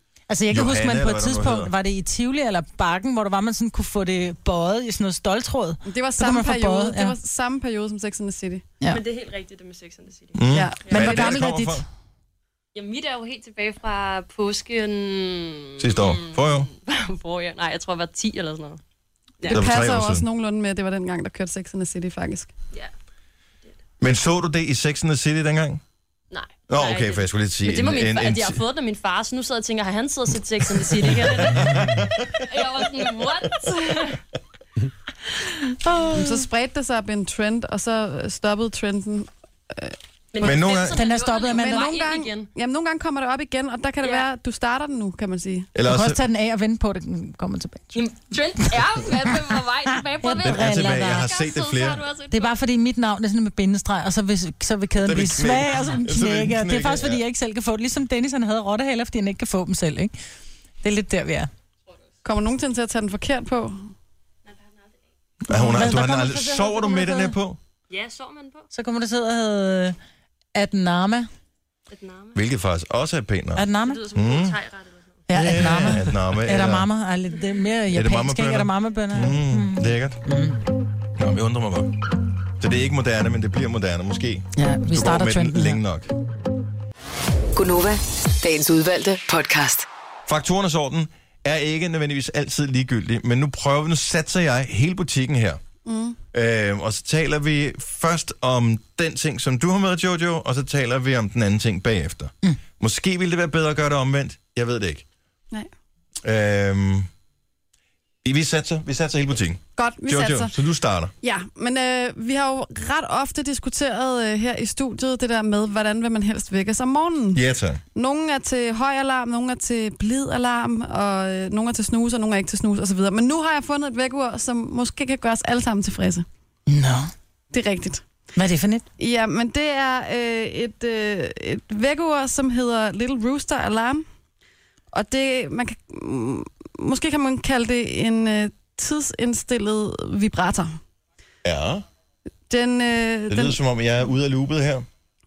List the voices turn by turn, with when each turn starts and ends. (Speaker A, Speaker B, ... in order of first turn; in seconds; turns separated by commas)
Speaker A: 0.3-7.1, Speaker B: 0.5-1.7, Speaker C: 5.8-8.6, Speaker D: 8.9-11.2, Speaker B: 10.3-11.8, Speaker C: 10.5-11.4, Speaker A: 10.9-11.8, Speaker D: 12.7-18.8, Speaker B: 15.8-16.7, Speaker D: 19.4-19.6, Speaker C: 19.5-22.5, Speaker B: 19.5-20.2, Speaker B: 24.0-25.8, Speaker D: 26.3-31.8, Speaker B: 26.7-28.6, Speaker B: 30.9-32.9, Speaker D: 32.4-34.2, Speaker B: 33.5-34.0, Speaker C: 36.1-40.0, Speaker D: 40.3-42.5, Speaker B: 40.4-41.0, Speaker A: 40.9-41.9, Speaker C: 41.5-45.7, Speaker D: 44.0-44.3, Speaker B: 45.7-46.2, Speaker A: 45.8-48.0, Speaker D: 47.9-52.5, Speaker A: 50.2-51.3, Speaker B: 50.4-52.0, Speaker A: 52.3-60.1, Speaker B: 55.0-57.2, Speaker A: 60.8-61.5, Speaker C: 62.2-63.9, Speaker D: 64.5-64.9, Speaker B: 65.4-67.6, Speaker A: 65.5-67.3, Speaker D: 67.9-68.7, Speaker A: 68.7-70.0, Speaker A: 70.5-71.3, Speaker D: 71.9-72.4, Speaker B: 72.3-74.6, Speaker A: 73.5-74.0, Speaker D: 73.8-75.2, Speaker A: 75.3-80.6, Speaker B: 75.3-76.9, Speaker B: 77.9-80.2, Speaker B: 81.2-82.0, Speaker B: 82.6-86.1, Speaker A: 84.5-85.8, Speaker E: 87.5-89.8, Speaker B: 90.3-95.6, Speaker C: 95.8-96.2, Speaker B: 96.3-105.0, Speaker B: 106.2-107.1, Speaker B: 108.2-111.1, Speaker C: 109.8-110.5, Speaker C: 111.2-117.4, Speaker B: 117.3-117.8, Speaker C: 117.9-126.2, Speaker A: 126.7-127.1, Speaker C: 127.5-128.0, Speaker A: 128.3-128.8, Speaker C: 129.0-134.0, Speaker C: 134.9-140.8, Speaker B: 141.4-141.8, Speaker C: 142.5-143.6, Speaker B: 143.3-144.8